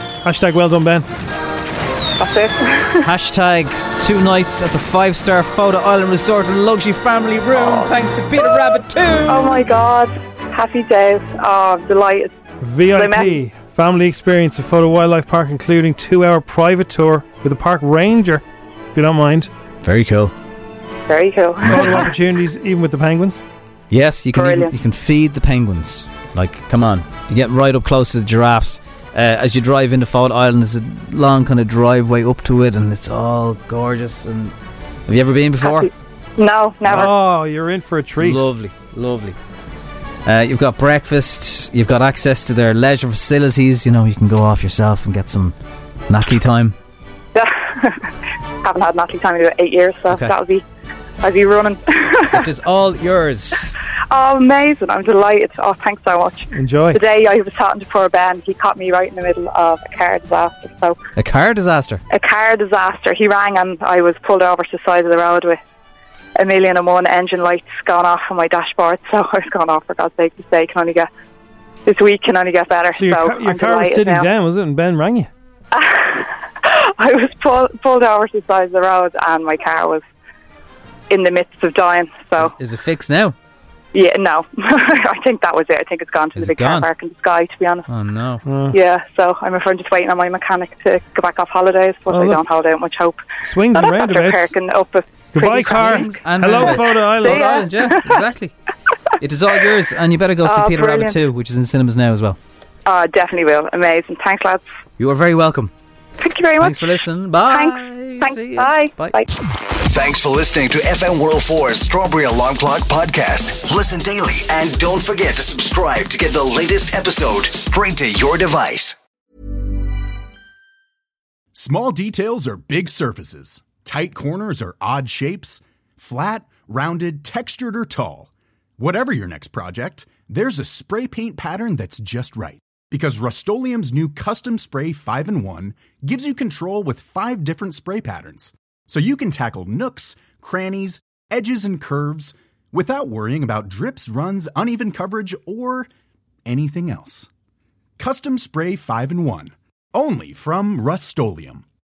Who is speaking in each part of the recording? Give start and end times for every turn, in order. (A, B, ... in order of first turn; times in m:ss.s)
0:00.2-0:01.1 A
0:02.2-0:03.0 B
0:03.0-0:09.6 C
0:07.5-0:07.9 B
0:09.3-0:12.3 B
0:12.6-0:19.5 A
0:12.9-0:13.3 B
0:19.8-0:20.3 C
0:21.1-0:22.1 B
0:21.6-0:23.4 A
0:21.6-0:22.0 C
0:23.9-0:34.5 C
0:24.3-0:24.7 B
0:35.1-0:35.9 C
0:35.6-0:37.1 B
0:36.8-0:38.4 A
0:38.2-0:39.4 C
0:40.3-0:45.6 C
0:46.1-0:46.8 C
0:47.3-0:48.1 B
0:48.6-0:50.6 B
0:51.2-0:52.5 B
0:52.3-0:53.7 C
0:54.1-1:01.0 B
0:56.5-0:57.0 A
1:01.2-1:02.0 C
1:02.1-1:05.6 B
1:06.4-1:11.1 B
1:11.9-1:14.3 B
1:12.9-1:15.3 A
1:15.7-1:20.0 B
1:21.1-1:22.5 B
1:22.4-1:23.4 C
1:23.9-1:27.9 B
1:26.4-1:26.9 C
1:27.9-1:28.4 C
1:28.4-1:28.8 A
1:28.7-1:38.2 B
1:32.1-1:32.4 A
1:33.4-1:34.5 A
1:35.3-1:37.7 A
1:35.4-1:38.5 C
1:39.2-1:42.4 C
1:40.4-1:41.2 B
1:42.9-1:44.6 B
1:45.0-1:45.7 C
1:46.2-1:46.8 B
1:46.6-1:49.2 C
1:47.5-1:49.3 B
1:49.8-1:59.0 D
2:01.5-2:25.9 E
2:26.4-2:27.3 E
2:28.0-2:31.6 E